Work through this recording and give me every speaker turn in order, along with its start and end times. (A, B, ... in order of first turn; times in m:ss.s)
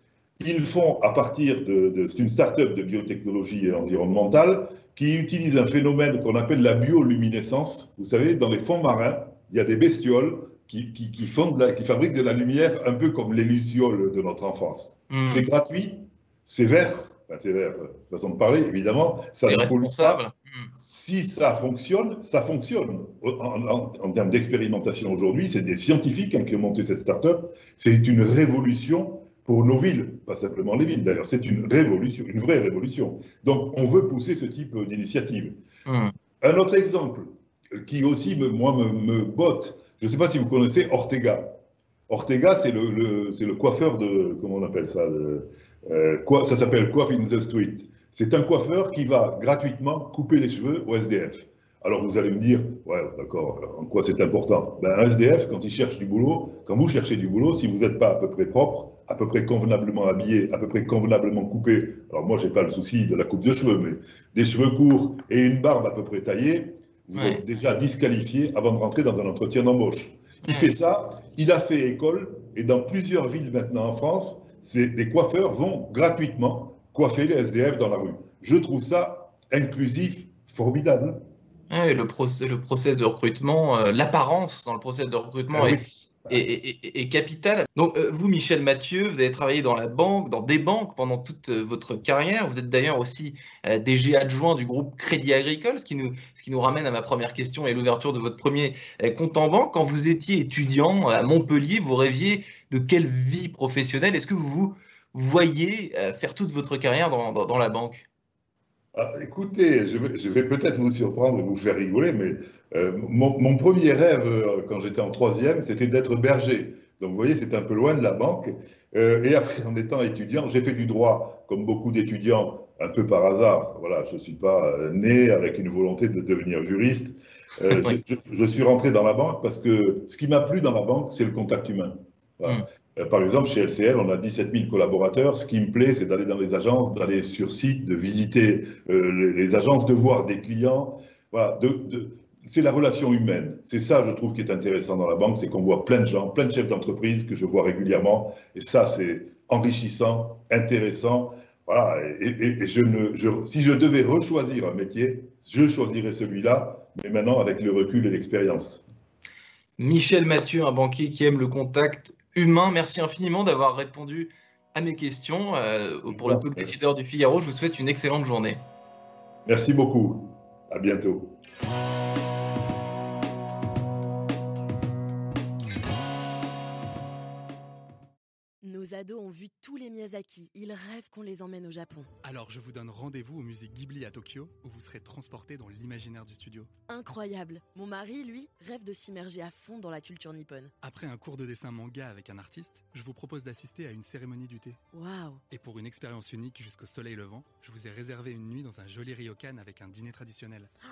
0:00.4-0:20.2 A
0:15.1-0:15.5 B
0:19.5-0:20.7 B
0:20.8-0:35.6 A
0:35.9-0:36.1 B
0:36.4-0:41.6 A
0:42.1-1:21.2 A
1:07.2-1:07.4 B
1:10.4-1:10.7 B
1:21.7-1:48.1 B
1:25.5-1:26.4 A
1:49.0-2:38.8 A
2:39.8-2:48.6 B
2:46.0-2:46.7 A
2:49.5-2:51.4 A
2:58.6-3:02.1 C
3:02.2-3:06.7 D
3:06.9-3:10.7 C
3:10.8-3:14.8 D
3:14.9-3:15.4 C
3:15.5-3:20.7 D